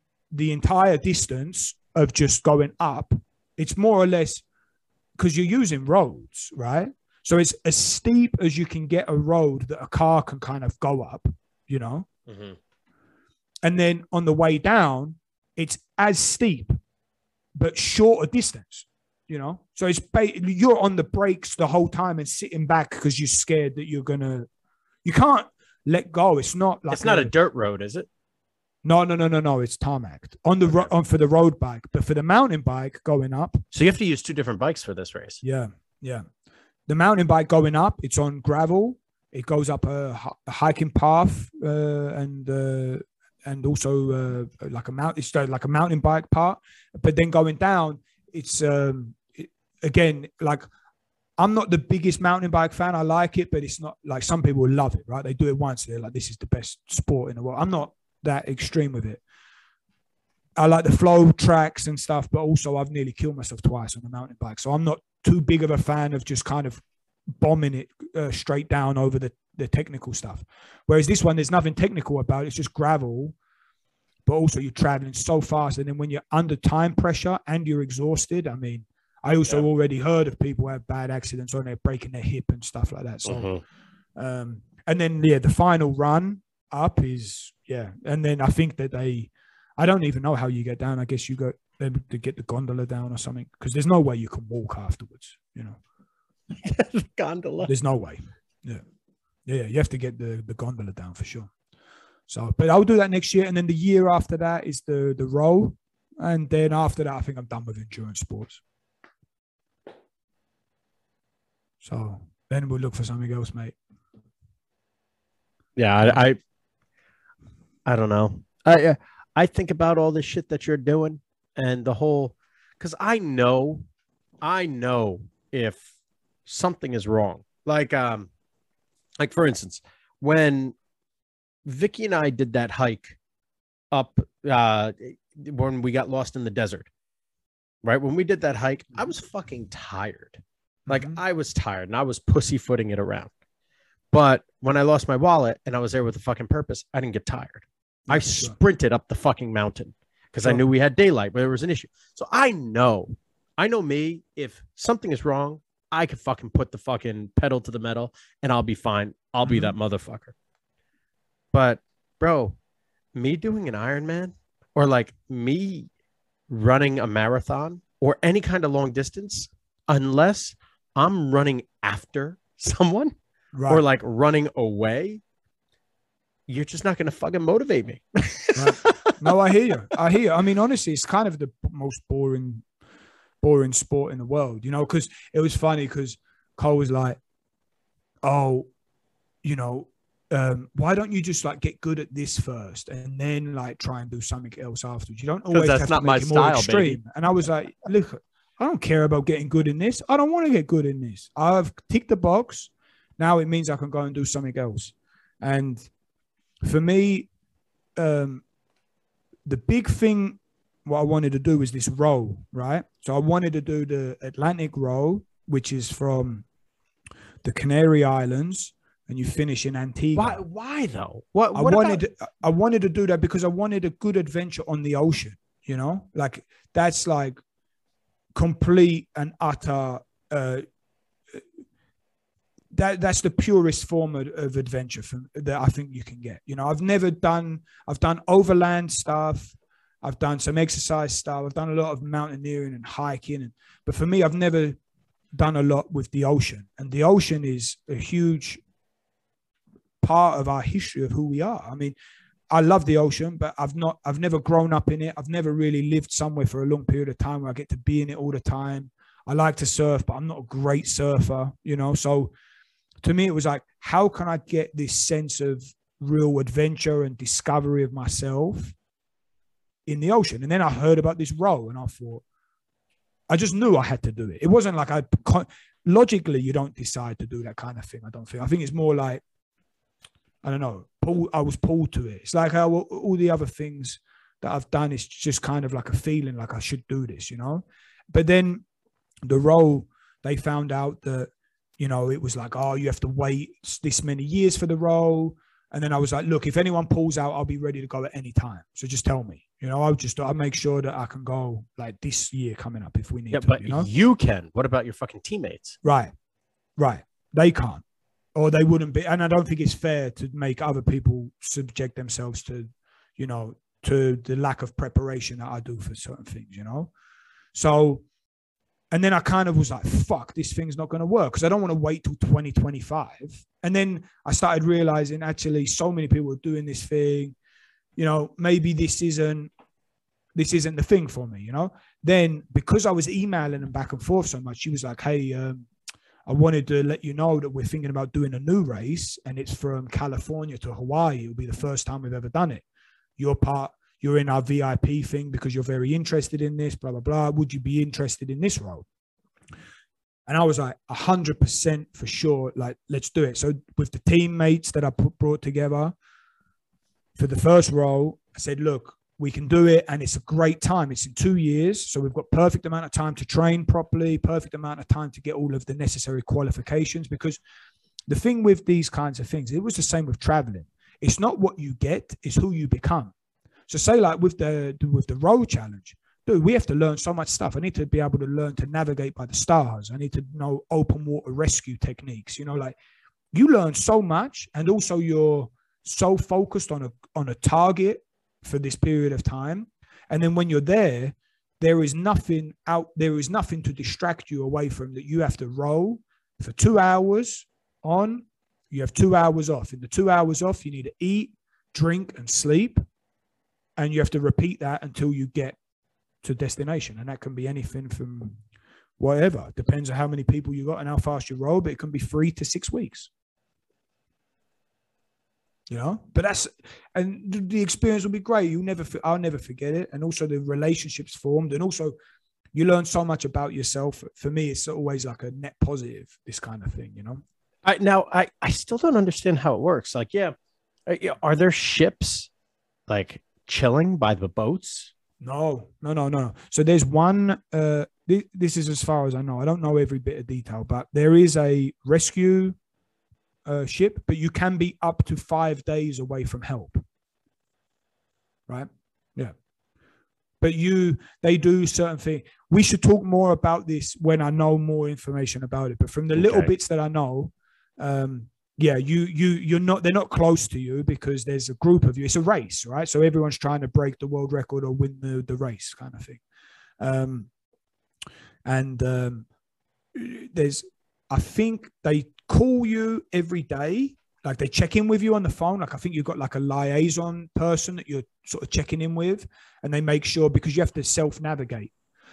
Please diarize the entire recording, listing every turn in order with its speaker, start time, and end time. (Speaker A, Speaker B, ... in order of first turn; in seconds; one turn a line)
Speaker A: 0.3-4.4
Speaker A: 5.2-12.1
Speaker B: 12.3-12.6
Speaker A: 13.7-16.8
Speaker A: 17.6-24.5
Speaker A: 25.1-27.3
Speaker B: 26.9-28.1
Speaker A: 28.8-33.6
Speaker B: 30.6-30.9
Speaker B: 33.7-35.4
Speaker A: 35.4-36.3
Speaker A: 36.9-50.6
Speaker A: 51.4-59.2
Speaker A: 60.6-66.8
Speaker A: 67.4-73.3
Speaker A: 74.3-83.5
Speaker B: 83.3-83.6
Speaker A: 84.2-95.8
Speaker B: 96.6-97.7
Speaker A: 97.6-98.8
Speaker A: 99.5-101.5
Speaker A: 102.3-108.6
Speaker A: 111.8-113.8
Speaker B: 115.8-116.4
Speaker B: 117.8-123.9
Speaker B: 124.4-125.9
Speaker B: 126.5-128.3
Speaker B: 129.2-130.8
Speaker B: 131.7-133.2
Speaker B: 133.9-136.9
Speaker B: 137.8-143.3
Speaker A: 140.9-141.2
Speaker B: 144.1-160.3
Speaker A: 148.1-148.6
Speaker A: 159.4-159.8
Speaker B: 161.5-162.6
Speaker B: 163.2-165.9
Speaker B: 166.5-173.2
Speaker A: 173.5-173.8
Speaker B: 173.7-175.2
Speaker B: 176.5-179.3
Speaker A: 178.6-182.7
Speaker A: 183.4-187.2
Speaker A: 188.2-188.7
Speaker A: 189.4-205.9
Speaker B: 195.5-197.0
Speaker A: 206.6-207.3
Speaker A: 208.0-208.4
Speaker A: 209.5-216.5
Speaker A: 217.4-220.4
Speaker B: 220.1-222.0
Speaker A: 221.5-227.4
Speaker A: 228.4-230.7
Speaker A: 232.7-244.8
Speaker A: 245.3-248.6
Speaker A: 250.0-252.0
Speaker A: 252.5-262.3
Speaker A: 263.0-268.8
Speaker A: 269.9-272.2
Speaker A: 273.3-279.2
Speaker A: 280.4-288.6
Speaker A: 289.3-303.9
Speaker B: 303.3-305.8
Speaker A: 305.8-306.1
Speaker A: 306.8-307.8
Speaker A: 308.4-316.9
Speaker A: 317.5-318.0
Speaker A: 318.9-327.4
Speaker A: 328.0-329.5
Speaker A: 330.4-335.7
Speaker A: 336.3-342.6
Speaker A: 343.2-348.9
Speaker A: 350.3-355.9
Speaker A: 357.2-367.4
Speaker A: 368.1-373.1
Speaker A: 373.7-382.8
Speaker A: 383.3-402.8
Speaker A: 403.8-405.6
Speaker A: 406.2-408.4
Speaker A: 409.0-413.1
Speaker A: 415.7-421.9
Speaker A: 422.5-427.2
Speaker B: 427.6-430.3
Speaker B: 430.9-432.3
Speaker B: 432.9-434.9
Speaker A: 435.2-442.6
Speaker A: 443.5-446.8
Speaker A: 448.5-449.3
Speaker A: 450.4-466.2
Speaker B: 456.1-456.5
Speaker A: 466.8-467.3
Speaker A: 468.4-469.3
Speaker A: 469.9-481.7